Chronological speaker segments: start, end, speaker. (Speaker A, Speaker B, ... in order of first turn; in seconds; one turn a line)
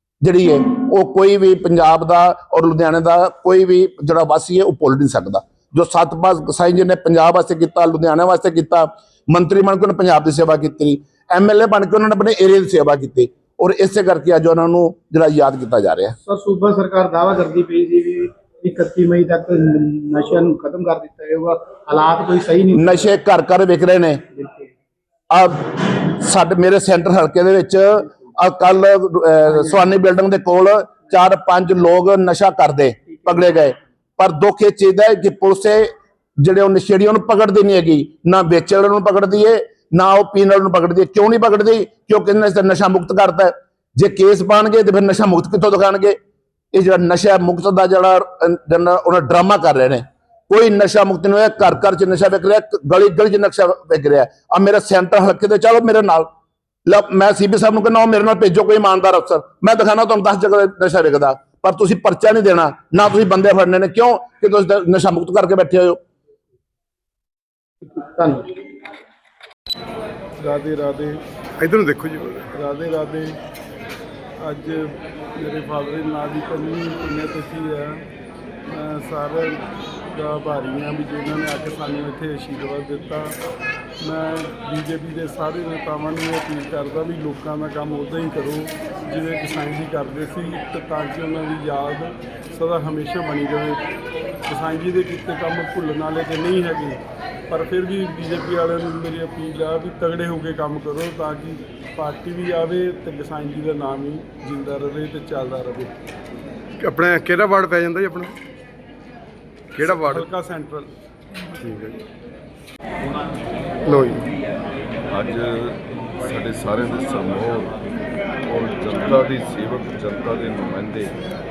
Speaker A: 0.2-16.1
Speaker B: 16.2-23.1
Speaker A: 22.7-24.2
Speaker B: 24.3-24.7
Speaker A: 25.3-46.2
Speaker A: 46.7-56.3
Speaker A: 56.9-66.0
Speaker B: 67.8-68.5
Speaker C: 70.4-71.2
Speaker D: 71.6-72.5
Speaker C: 72.5-73.3
Speaker C: 74.4-78.0
Speaker C: 78.7-79.6
Speaker C: 80.1-83.3
Speaker C: 84.0-93.8
Speaker C: 94.5-105.9
Speaker D: 106.8-108.3
Speaker D: 109.8-110.3
Speaker C: 109.8-110.9
Speaker D: 111.6-112.0
Speaker D: 113.8-114.3
Speaker E: 115.1-117.8
Speaker E: 118.5-121.1